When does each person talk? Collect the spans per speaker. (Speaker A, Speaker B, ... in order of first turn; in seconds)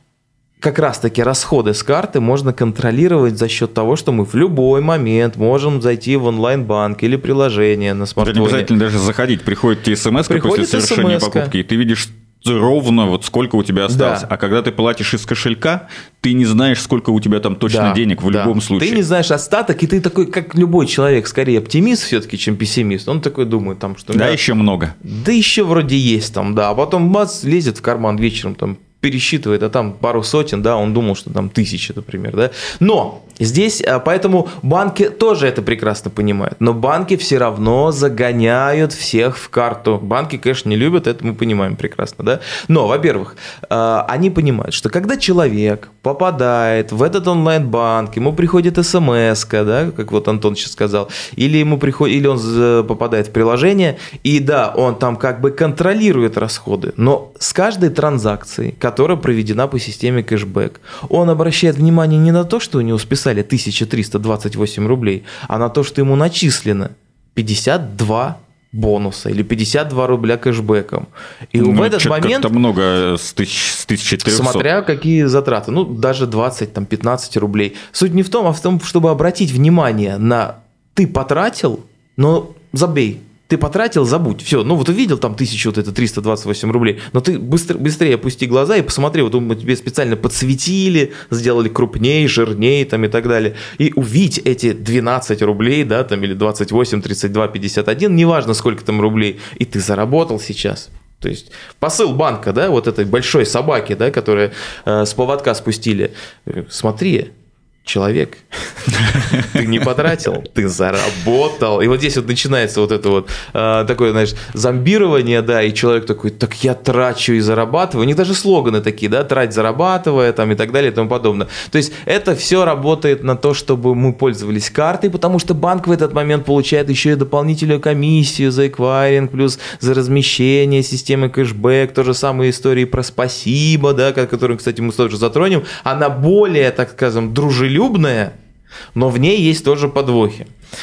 Speaker A: 0.6-8.7, 10.3-11.5, 13.9-14.3, 17.6-24.4, 25.0-72.5, 74.2-107.3, 107.8-138.3, 138.9-140.5
Speaker B: 8.2-19.0, 24.1-24.9, 71.6-74.7